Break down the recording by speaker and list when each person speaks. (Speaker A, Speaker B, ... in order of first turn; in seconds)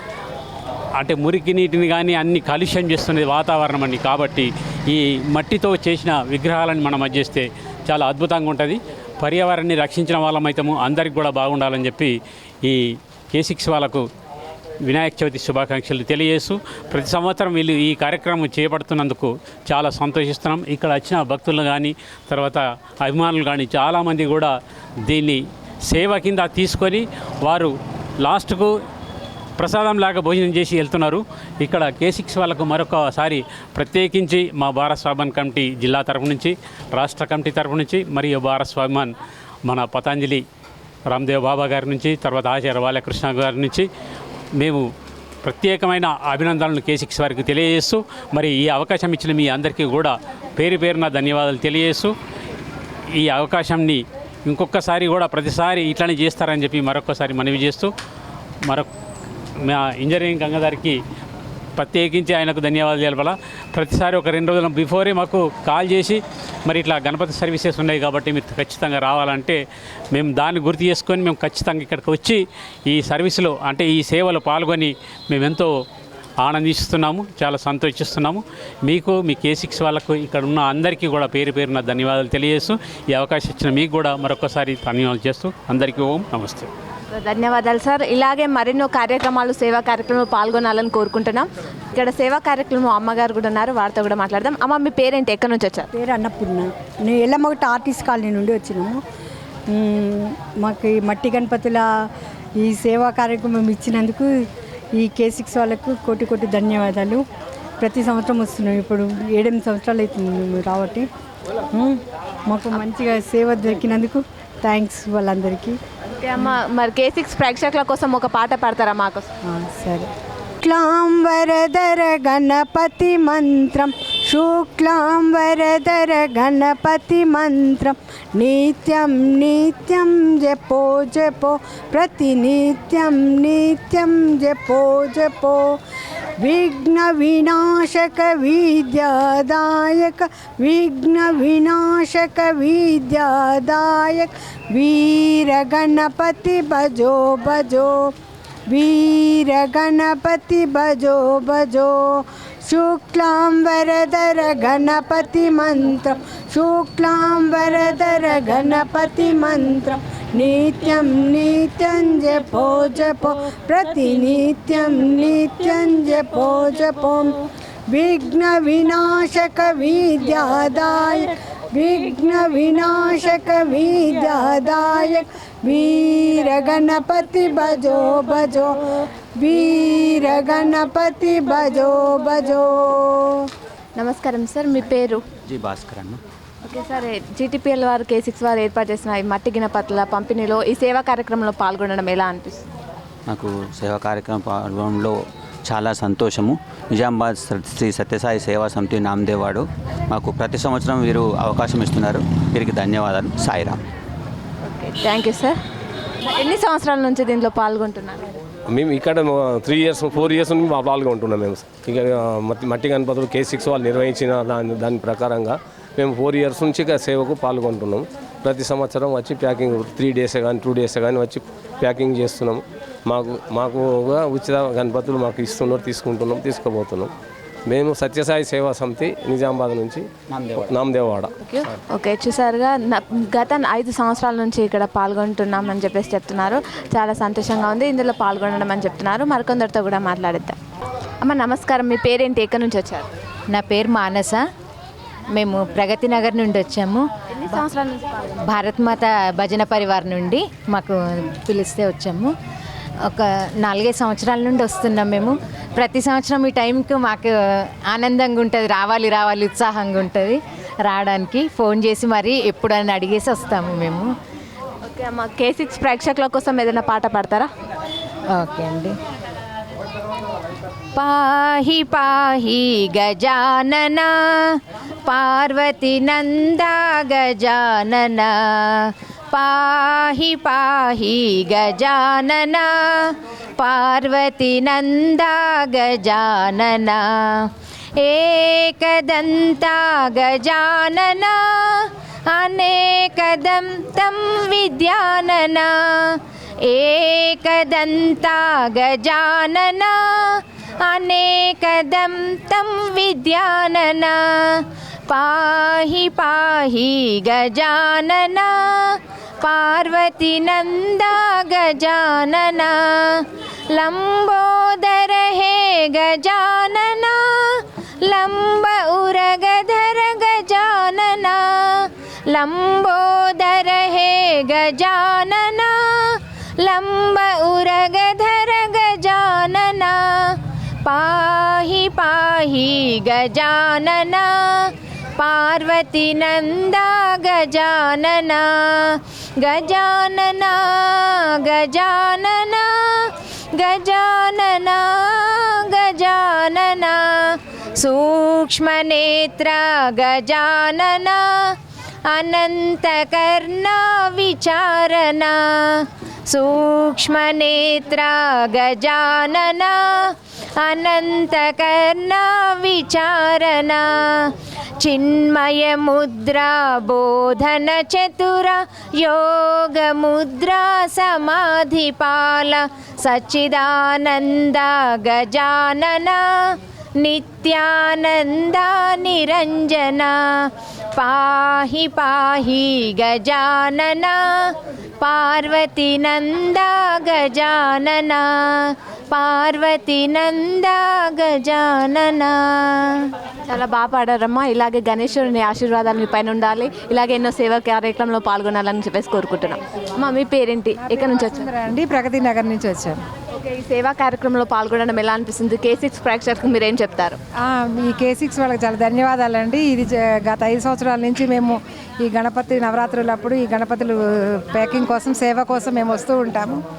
Speaker A: 1.0-14.1, 14.8-24.5, 25.1-28.7, 29.6-39.1, 39.6-40.4, 41.1-43.9, 44.6-44.9, 45.4-52.1, 53.2-57.9, 59.6-61.0, 61.8-69.6, 70.1-75.7, 76.4-86.7
Speaker B: 87.1-95.9, 116.2-119.3, 184.0-185.2, 186.6-192.6, 204.6-205.6, 206.3-208.2, 231.4-240.6, 241.2-243.1, 247.3-248.4, 264.9-267.5, 393.5-401.5, 403.3-407.2
Speaker C: 95.9-99.0, 99.7-101.9, 102.6-104.3, 105.0-107.2, 107.8-111.1, 111.7-115.8, 119.5-135.7, 136.4-148.1, 148.7-167.3, 167.9-178.7, 179.4-183.2
Speaker D: 185.5-186.2, 193.3-195.2, 195.7-203.8, 230.3-230.7
Speaker E: 208.7-227.1, 227.7-231.7
Speaker F: 243.5-244.4, 245.3-247.1, 248.4-252.3, 253.1-257.3, 257.9-264.1, 268.4-268.9, 270.9-274.2, 275.1-287.5, 288.0-351.5, 352.1-393.0
Speaker G: 400.9-403.0, 407.4-414.0, 414.5-416.6